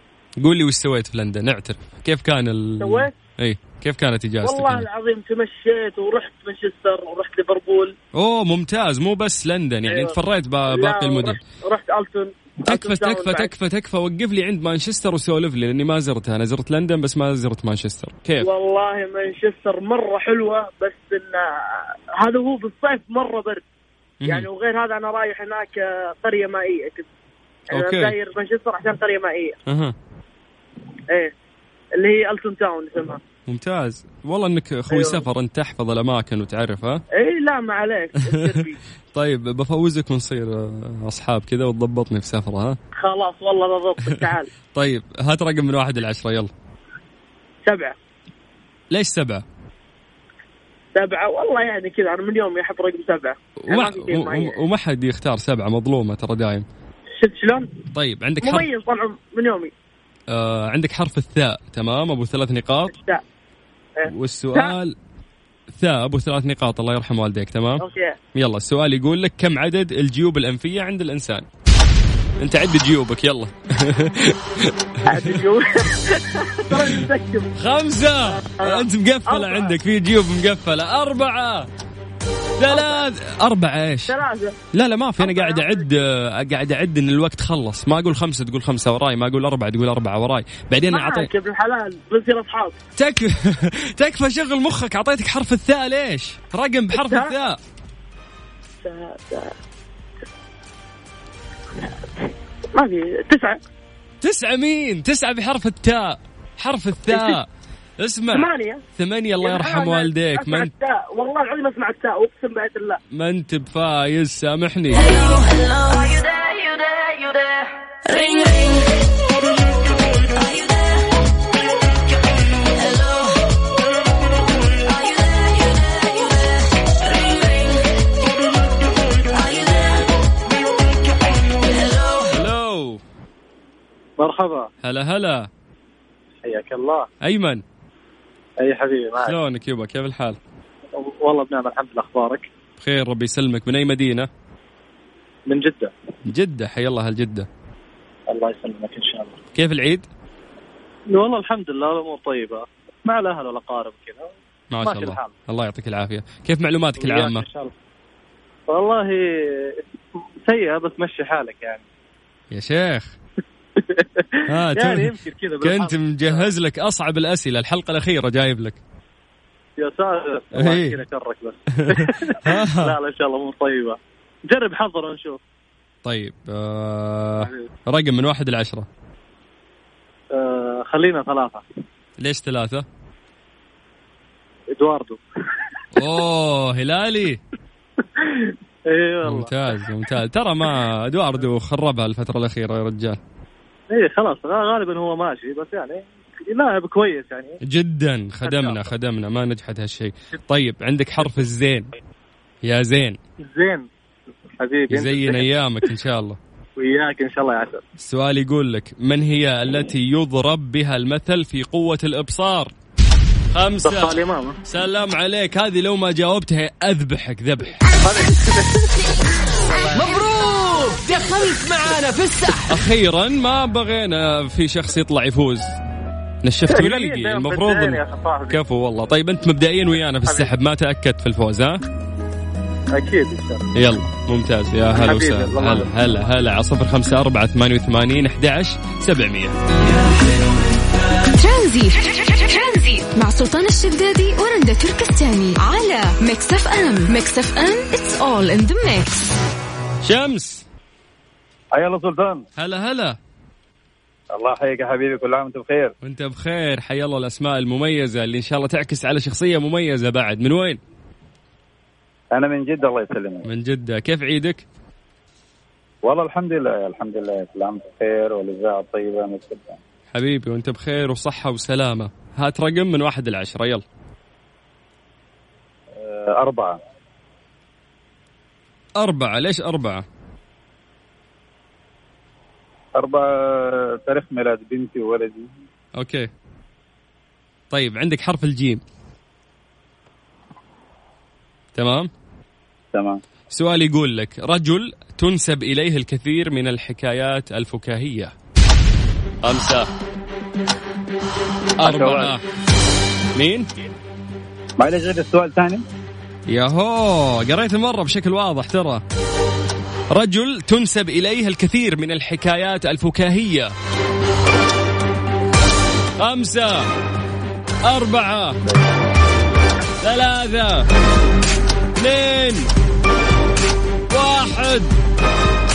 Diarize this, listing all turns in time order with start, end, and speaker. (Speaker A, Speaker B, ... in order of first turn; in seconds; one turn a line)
Speaker A: 0.4-4.9
Speaker B: 2.8-3.1
Speaker B: 4.5-7.9
Speaker A: 8.1-11.4
Speaker B: 10.7-13.5
Speaker A: 12.7-18.5
Speaker B: 18.4-21.3
Speaker B: 22.3-23.6
Speaker A: 24.2-24.5
Speaker B: 24.3-27.0
Speaker A: 27.7-28.2
Speaker B: 27.7-29.5
Speaker A: 29.7-29.9
Speaker B: 32.1-33.2
Speaker A: 33.5-37.0
Speaker B: 37.3-38.0
Speaker A: 38.2-42.8
Speaker B: 43.1-44.4
Speaker A: 44.0-46.5
Speaker B: 47.7-47.9
Speaker A: 48.9-49.4
Speaker B: 51.0-53.3
Speaker A: 53.6-56.6
Speaker B: 53.9-54.5
Speaker A: 57.9-58.7
Speaker B: 58.5-59.7
Speaker A: 60.3-62.9
Speaker A: 64.0-64.9
Speaker A: 65.8-71.5
Speaker A: 72.4-75.4
Speaker B: 75.1-75.6
Speaker A: 76.7-77.0
Speaker B: 76.7-77.4
Speaker A: 77.5-81.7
Speaker B: 79.3-79.7
Speaker A: 82.6-84.2
Speaker B: 82.7-83.0
Speaker B: 84.1-84.5
Speaker A: 84.7-91.3
Speaker B: 85.2-85.8
Speaker B: 90.9-92.7
Speaker A: 93.0-97.6
Speaker B: 98.8-99.4
Speaker B: 102.8-103.5
Speaker A: 104.2-107.5
Speaker A: 108.0-110.7
Speaker B: 108.4-108.8
Speaker B: 109.5-113.0
Speaker A: 113.1-115.1
Speaker A: 129.4-130.1
Speaker A: 132.3-133.0
Speaker C: 134.2-134.7
Speaker A: 134.8-135.5
Speaker C: 136.4-137.1
Speaker A: 137.2-137.6
Speaker C: 138.6-139.4
Speaker A: 139.2-140.4
Speaker C: 141.0-142.5
Speaker A: 142.8-144.3
Speaker C: 145.5-145.9
Speaker A: 146.3-147.5
Speaker C: 148.3-149.3
Speaker A: 149.5-150.1
Speaker C: 151.1-155.3
Speaker A: 154.7-157.4
Speaker C: 157.0-157.7
Speaker C: 158.7-159.8
Speaker C: 160.4-161.8
Speaker A: 162.5-163.1
Speaker C: 163.8-166.5
Speaker A: 164.5-168.8
Speaker C: 169.8-174.0
Speaker A: 170.5-171.0
Speaker A: 171.9-172.9
Speaker C: 174.5-175.4
Speaker A: 176.0-178.8
Speaker C: 177.4-177.7
Speaker C: 180.3-181.6
Speaker A: 182.2-182.8
Speaker C: 184.7-185.2
Speaker A: 185.9-187.4
Speaker C: 188.2-189.7
Speaker A: 189.2-193.2
Speaker C: 193.9-197.6
Speaker A: 197.6-201.9
Speaker C: 198.4-198.9
Speaker C: 201.2-201.5
Speaker A: 202.6-203.2
Speaker C: 203.4-203.8
Speaker C: 204.6-205.5
Speaker A: 204.9-206.4
Speaker C: 206.8-207.8
Speaker A: 208.0-212.7
Speaker A: 213.5-217.8
Speaker C: 213.8-214.6
Speaker C: 218.0-219.0
Speaker C: 219.7-220.1
Speaker D: 219.9-222.8
Speaker A: 222.7-225.7
Speaker A: 226.4-231.8
Speaker C: 226.7-228.6
Speaker C: 230.2-230.5
Speaker C: 232.9-233.6
Speaker A: 233.7-240.8
Speaker C: 234.9-236.3
Speaker E: 241.3-249.3
Speaker A: 250.0-250.6
Speaker F: 251.7-252.4
Speaker A: 252.6-253.2
Speaker F: 254.3-255.9
Speaker A: 256.0-260.8
Speaker F: 262.3-263.4
Speaker A: 263.4-264.6
Speaker F: 266.0-269.8
Speaker A: 270.1-273.8
Speaker F: 276.0-276.8
Speaker A: 279.0-280.0
Speaker F: 282.9-285.5
Speaker A: 285.9-286.3
Speaker A: 287.7-288.8
Speaker A: 291.7-292.1
Speaker F: 292.9-293.2
Speaker A: 293.5-298.3
Speaker A: 299.4-299.9
Speaker A: 301.8-302.4
Speaker F: 301.8-302.3
Speaker A: 303.3-303.7
Speaker F: 304.8-305.8
Speaker A: 306.5-309.0
Speaker A: 310.1-313.7
Speaker A: 316.2-316.9
Speaker A: 317.8-318.6
Speaker A: 320.0-320.9
Speaker A: 322.0-322.7
Speaker A: 324.1-325.0